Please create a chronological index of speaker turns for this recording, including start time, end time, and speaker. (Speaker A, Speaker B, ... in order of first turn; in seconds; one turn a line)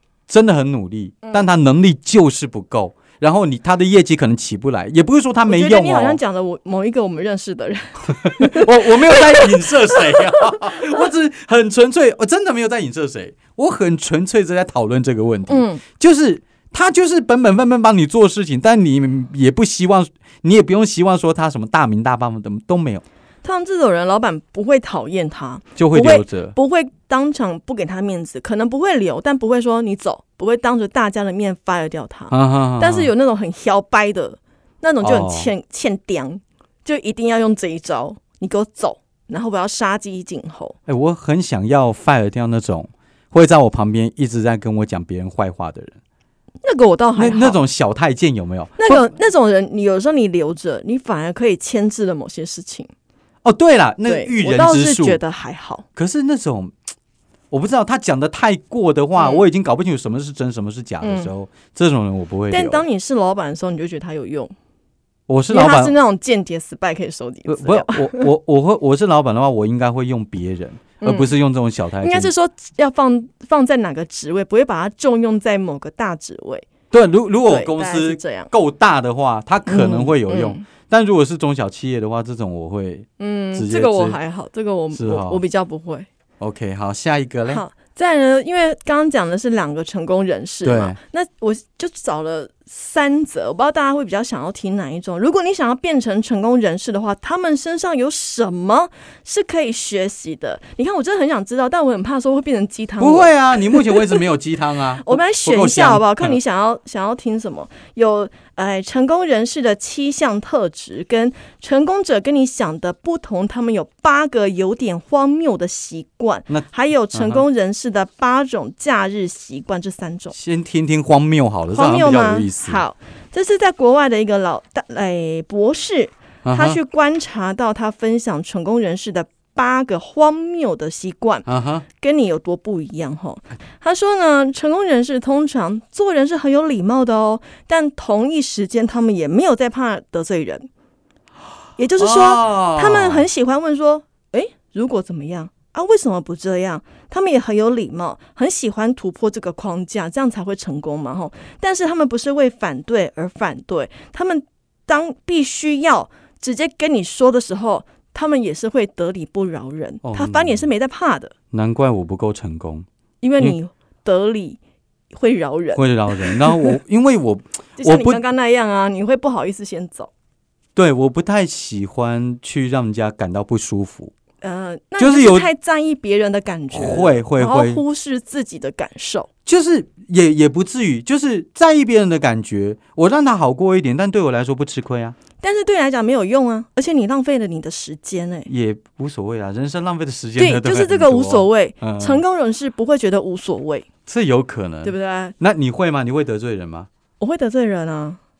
Speaker A: 0.3-6.2
Speaker B: 5.5-11.0
Speaker A: 8.2-23.0
Speaker B: 15.5-15.8
Speaker B: 23.4-40.8
Speaker A: 25.8-26.5
Speaker A: 32.3-33.1
Speaker A: 35.0-35.5
Speaker A: 40.9-46.0
Speaker B: 46.6-47.6
Speaker A: 47.2-49.0
Speaker B: 48.8-52.9
Speaker A: 53.4-55.2
Speaker B: 54.1-55.8
Speaker A: 56.0-56.7
Speaker A: 57.5-62.8
Speaker B: 59.2-59.4
Speaker B: 61.0-61.3
Speaker B: 62.5-64.5
Speaker A: 65.3-65.9
Speaker B: 65.5-68.3
Speaker A: 67.5-72.3
Speaker B: 71.0-71.3
Speaker B: 72.0-76.7
Speaker A: 76.9-84.2
Speaker B: 77.5-78.5
Speaker B: 79.7-80.6
Speaker B: 83.2-86.1
Speaker A: 84.9-85.4
Speaker A: 86.4-87.6
Speaker B: 87.5-104.2
Speaker A: 90.6-91.0
Speaker A: 103.0-106.3
Speaker B: 105.0-120.3
Speaker A: 116.5-117.4
Speaker A: 120.3-122.8
Speaker B: 121.7-140.7
Speaker A: 126.4-126.8
Speaker A: 131.5-131.8
Speaker B: 141.8-161.3
Speaker A: 142.0-143.2
Speaker A: 160.0-160.6
Speaker A: 161.5-162.8
Speaker B: 163.2-164.6
Speaker B: 165.1-166.8
Speaker A: 165.7-168.2
Speaker B: 167.8-170.1
Speaker A: 170.8-174.1
Speaker B: 174.4-179.3
Speaker A: 175.0-175.5
Speaker A: 176.7-177.8
Speaker A: 179.4-185.2
Speaker B: 185.4-188.5
Speaker A: 188.5-192.2
Speaker B: 190.4-193.9
Speaker A: 194.1-196.9
Speaker B: 194.8-195.3
Speaker B: 197.2-198.2